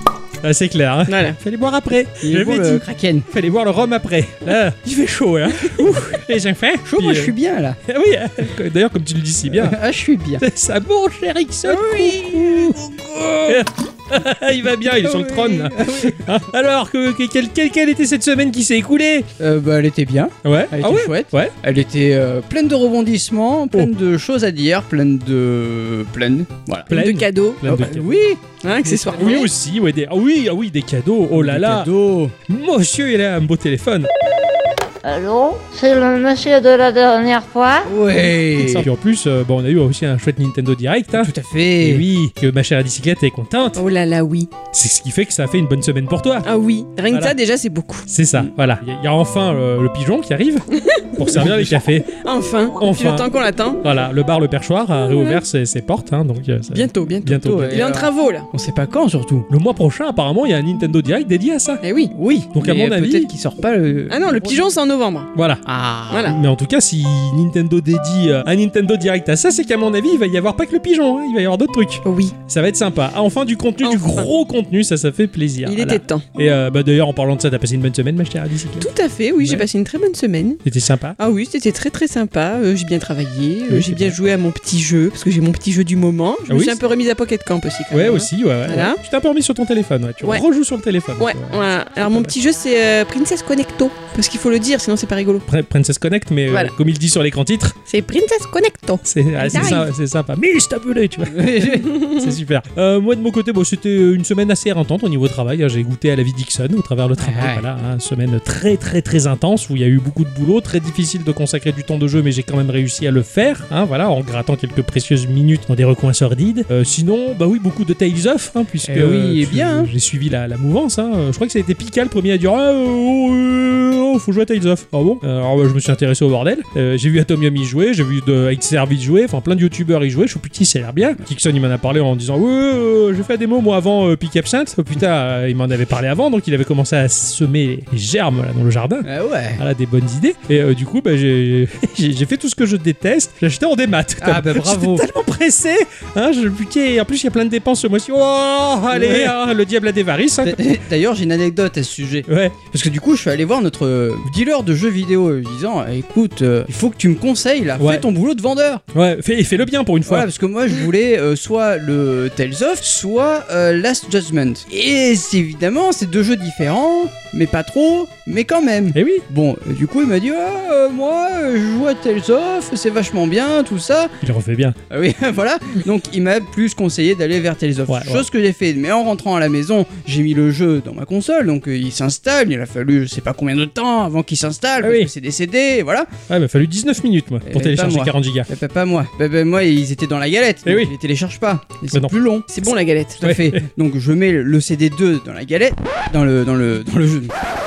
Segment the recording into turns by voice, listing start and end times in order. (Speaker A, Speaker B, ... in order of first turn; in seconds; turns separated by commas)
Speaker A: 0.4-9.8, Speaker B: 1.1-1.4, Speaker C: 2.2-3.3, Speaker C: 6.9-7.8, Speaker C: 9.5-10.4, Speaker A: 10.4-12.8, Speaker C: 11.7-13.6, Speaker A: 13.5-19.3, Speaker C: 15.0-16.3, Speaker C: 19.4-26.9, Speaker A: 20.4-21.5, Speaker A: 26.9-28.2, Speaker B: 26.9-27.6, Speaker C: 27.6-28.4, Speaker B: 28.6-29.5, Speaker A: 28.9-31.9, Speaker C: 31.3-32.3, Speaker A: 32.5-34.1, Speaker D: 35.0-37.9, Speaker C: 37.9-38.9, Speaker A: 38.6-43.8, Speaker C: 41.1-42.0, Speaker B: 43.8-44.5, Speaker A: 44.7-46.5, Speaker B: 46.4-48.1, Speaker A: 47.1-47.4, Speaker A: 48.1-52.1, Speaker B: 50.7-53.8, Speaker A: 52.8-53.3, Speaker A: 53.8-57.8, Speaker B: 55.0-55.4, Speaker B: 56.7-58.5, Speaker C: 57.4-59.5, Speaker A: 59.5-61.8, Speaker B: 61.8-62.1, Speaker C: 62.1-64.7, Speaker A: 62.5-63.3, Speaker B: 64.1-65.3, Speaker A: 65.3-65.6, Speaker C: 65.7-66.3, Speaker B: 66.1-66.4, Speaker A: 66.2-78.9, Speaker B: 72.0-72.3, Speaker B: 73.8-74.3, Speaker B: 75.6-76.2, Speaker B: 78.8-80.6, Speaker A: 79.4-79.7, Speaker A: 80.6-81.2, Speaker B: 81.2-89.0, Speaker A: 83.7-84.2, Speaker A: 86.5-86.8, Speaker A: 87.9-92.3, Speaker B: 91.2-95.5, Speaker A: 95.5-97.8, Speaker B: 97.9-99.9, Speaker A: 99.1-139.1, Speaker C: 101.3-101.9, Speaker B: 101.9-102.2, Speaker C: 107.2-107.7, Speaker C: 118.9-119.9, Speaker C: 139.0-139.6, Speaker A: 139.6-150.6, Speaker C: 144.2-145.0, Speaker C: 148.9-149.3, Speaker C: 150.4-158.8, Speaker A: 152.3-152.6, Speaker A: 157.8-158.1, Speaker A: 158.9-160.3, Speaker C: 160.1-174.2, Speaker A: 168.9-169.2, Speaker A: 174.2-174.8, Speaker C: 174.9-186.1, Speaker A: 177.9-178.3, Speaker A: 184.8-185.1, Speaker A: 186.3-188.5, Speaker C: 187.4-192.5, Speaker A: 190.7-190.9, Speaker B: 192.5-193.2, Speaker C: 193.2-197.3, Speaker A: 193.2-193.6